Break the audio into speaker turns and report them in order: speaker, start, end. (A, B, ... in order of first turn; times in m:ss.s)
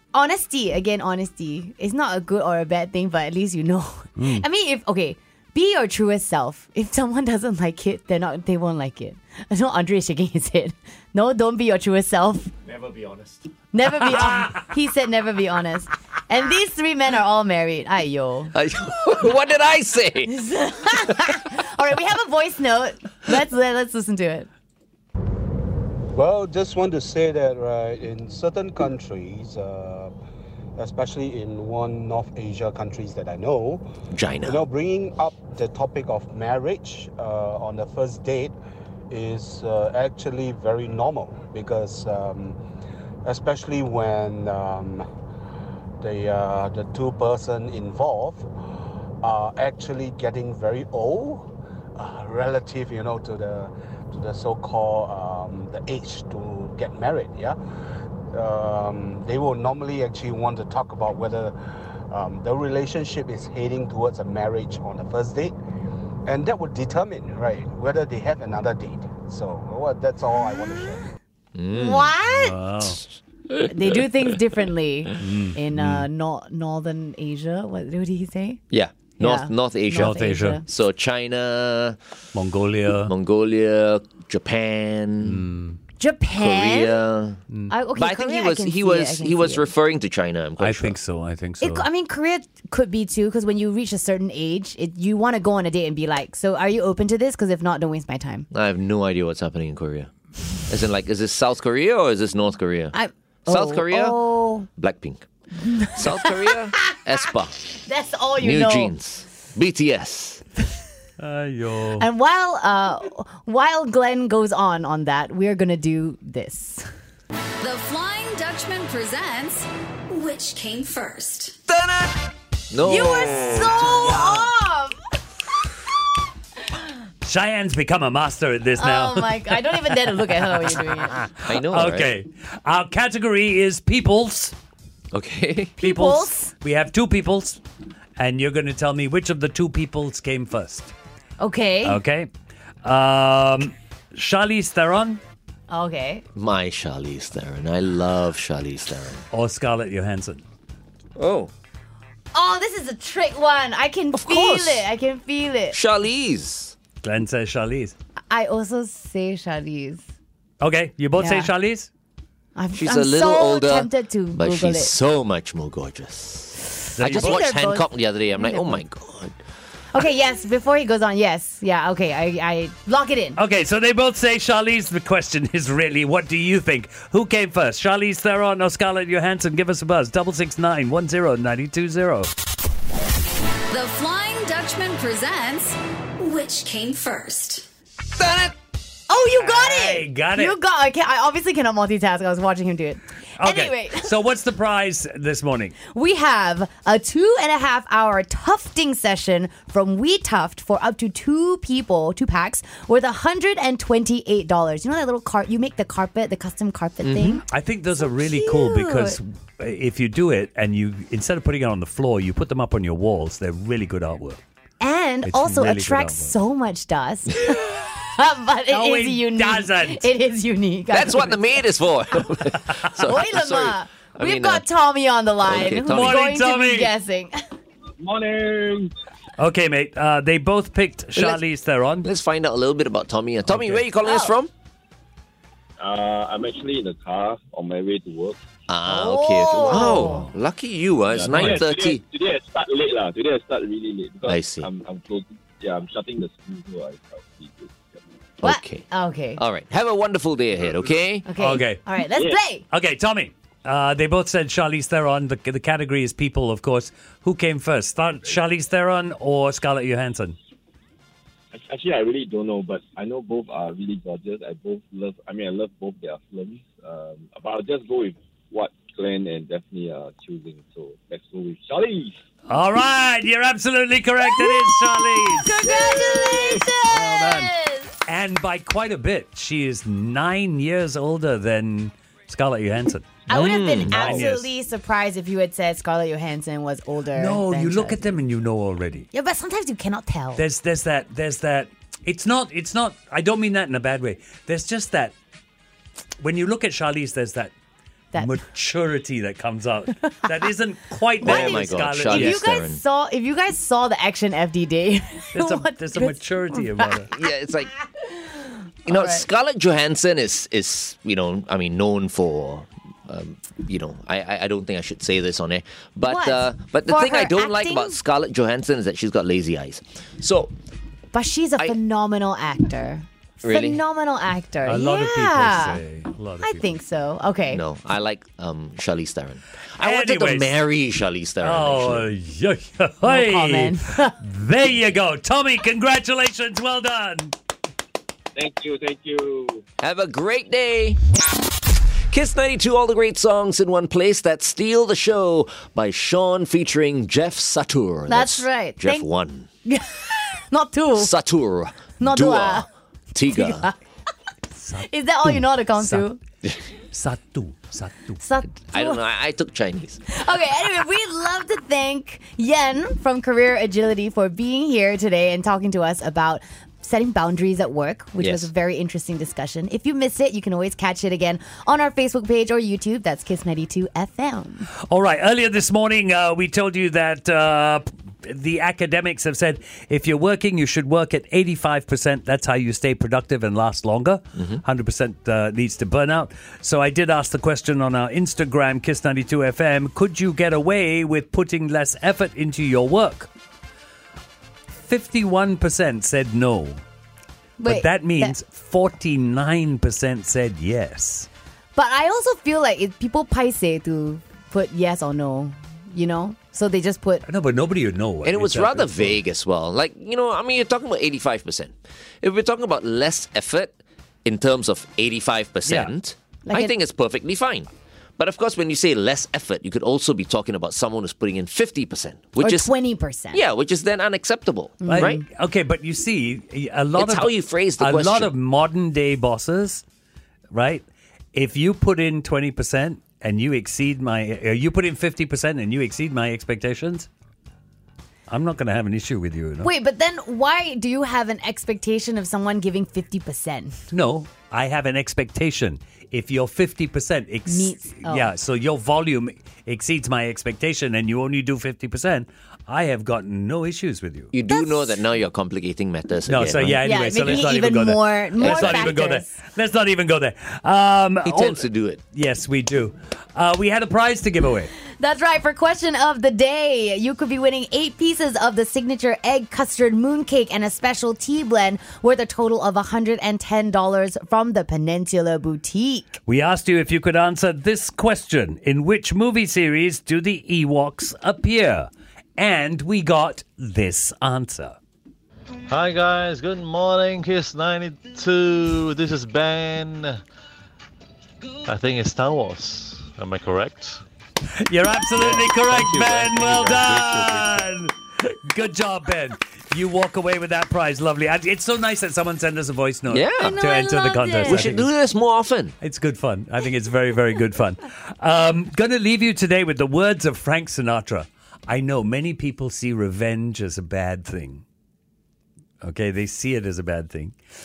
0:00.1-0:12.5 A
0:04.2-0:04.4 B
0:12.8-0:13.3 C
0:13.7-0:18.5 A
0:18.5-0:20.3 C
0:20.3-0:24.5 A
0:26.1-0:30.1 D
0:30.8-0:33.8 D
0:34.1-0:34.6 C
0:34.4-0:38.6 D
0:39.1-0:42.6 D
0:43.2-0:45.1 D
0:46.0-0:48.5 D
0:49.2-0:57.6 D
0:58.3-1:01.6 D
1:02.1-1:05.6 D
1:06.3-1:11.1 D
1:11.6-1:13.0 C
1:11.7-1:12.5 A
1:12.3-1:13.0 B
1:13.7-1:18.6 A
1:15.2-1:16.1 B
1:18.7-1:22.0 C
1:19.2-1:20.6 A
1:20.0-1:20.6 B
1:22.4-1:23.1 B
1:23.0-1:25.5 C
1:25.2-1:25.8 B
1:26.0-1:27.0 A
1:26.4-1:27.4 C
1:27.7-1:29.7 A
1:28.0-1:31.0 C
1:30.6-1:31.8 B
1:31.6-1:38.5 A
1:38.5-1:40.1 C
1:40.7-1:42.9 C
1:42.9-1:44.7 A
1:43.5-1:45.3 C
1:45.6-1:47.0 A
1:45.8-1:47.6 C
1:47.8-1:48.9 A
1:48.4-1:50.4 C
1:51.2-1:52.1 B
1:52.0-1:56.9 A
1:57.6-2:01.6 E
2:01.7-2:04.5 C
2:02.8-2:05.0 A
2:07.2-2:14.5 B
2:08.8-2:11.2 A
2:11.4-2:12.1 C
2:15.1-2:15.8 C
2:15.8-2:16.5 A
2:15.8-2:17.6 B
2:18.2-2:20.9 B
2:21.4-2:22.0 A
2:21.8-2:22.3 B
2:22.8-2:25.2 B
2:25.7-2:26.2 A
2:26.4-2:29.2 C
2:29.3-2:30.4 B
2:31.2-2:31.5 C
2:32.3-2:35.8 A
2:34.1-2:34.9 C
2:35.7-2:36.8 C
2:37.0-2:38.0 B
2:38.3-2:40.0 A
2:40.6-2:41.9 B
2:41.2-2:41.5 A
2:42.6-2:44.9 A
2:42.7-2:49.3 C
2:47.0-2:47.4 B
2:47.0-2:48.8 A
2:49.9-2:53.4 A
2:53.4-3:02.3 B
3:03.7-3:07.6 E
3:08.1-3:08.6 C
3:09.1-3:14.1 A
3:09.4-3:10.6 B
3:13.4-3:15.8 B
3:15.9-3:27.4 A
3:27.0-3:27.4 C
3:27.5-3:34.4 B
3:28.0-3:29.2 A
3:34.8-3:41.7 A
3:35.3-3:36.3 B
3:38.7-3:40.1 B
3:40.9-3:44.6 C
3:43.0-3:47.4 A
3:45.4-3:46.2 C
3:45.9-3:46.9 B
3:48.0-3:48.9 F
3:49.4-3:52.1 B
3:52.0-3:54.5 C
3:53.5-3:53.8 B
3:54.0-3:54.3 A
3:55.8-3:58.4 F
3:58.7-4:02.0 C
3:58.9-4:00.3 A
4:01.1-4:08.0 F
4:01.3-4:01.6 B
4:04.2-4:04.7 C
4:08.4-4:08.9 C
4:08.4-4:09.4 A
4:09.4-4:11.3 C
4:10.6-4:10.9 F
4:11.3-4:12.6 A
4:11.4-4:11.8 B
4:12.7-4:20.4 B
4:21.5-4:32.2 F
4:32.5-4:36.4 B
4:34.3-4:37.9 A
4:36.0-4:36.6 F
4:36.9-4:37.5 B
4:38.1-4:44.5 B
4:43.3-4:48.2 A
4:43.3-4:44.2 C
4:47.2-4:49.1 B
4:49.1-4:50.4 A
4:50.4-4:55.2 B
4:56.2-4:57.5 B
4:58.2-5:02.4 B
5:01.2-5:02.8 C
5:01.2-5:07.0 A
5:05.3-5:07.1 B
5:07.1-5:07.7 C
5:08.0-5:09.3 A
5:08.9-5:20.5 C
5:16.1-5:18.0 A
5:21.1-5:25.8 A
5:23.4-5:23.8 C
5:24.6-5:26.7 B
5:26.4-5:27.6 A
5:27.5-5:32.1 C
5:29.8-5:30.6 B
5:31.4-5:37.3 B
5:33.0-5:34.2 A
5:38.4-5:39.6 F
5:39.8-5:41.0 C
5:42.1-5:49.5 C
5:48.1-5:49.1 A
5:49.7-5:51.1 A
5:51.0-5:53.7 C
5:52.0-5:52.7 A
5:53.3-5:53.8 A
5:54.6-5:56.1 B
5:54.8-5:56.2 A
5:56.9-5:58.5 B
5:58.2-5:59.0 A
5:58.7-6:00.0 C
6:00.1-6:14.7 A
6:08.2-6:08.5 C
6:14.9-6:33.3 B
6:34.7-6:36.8 B
6:37.6-6:38.3 A
6:37.6-6:41.3 B
6:41.8-6:47.2 A
6:47.3-6:49.2 B
6:48.2-7:02.7 C
6:56.5-6:56.7 A
7:02.4-7:03.4 A
7:03.3-7:05.2 C
7:04.8-7:05.3 A
7:04.9-7:09.8 B
7:07.0-7:08.3 C
7:10.5-7:17.1 B
7:18.3-7:19.7 B
7:19.6-7:23.8 A
7:23.9-7:34.3 B
7:27.5-7:28.3 A
7:34.3-7:36.8 C
7:34.5-7:34.9 A
7:36.3-7:44.7 B
7:36.8-7:39.3 A
7:38.4-7:39.0 C
7:41.2-7:42.0 C
7:45.0-7:56.2 A
7:56.3-8:04.8 B
8:05.7-8:10.2 G
8:11.7-8:14.0 G
8:14.7-8:24.9 B
8:15.1-8:17.7 G
8:23.1-8:23.6 C
8:23.4-8:24.7 A
8:24.5-8:25.8 C
8:25.8-8:34.6 B
8:35.8-8:37.3 B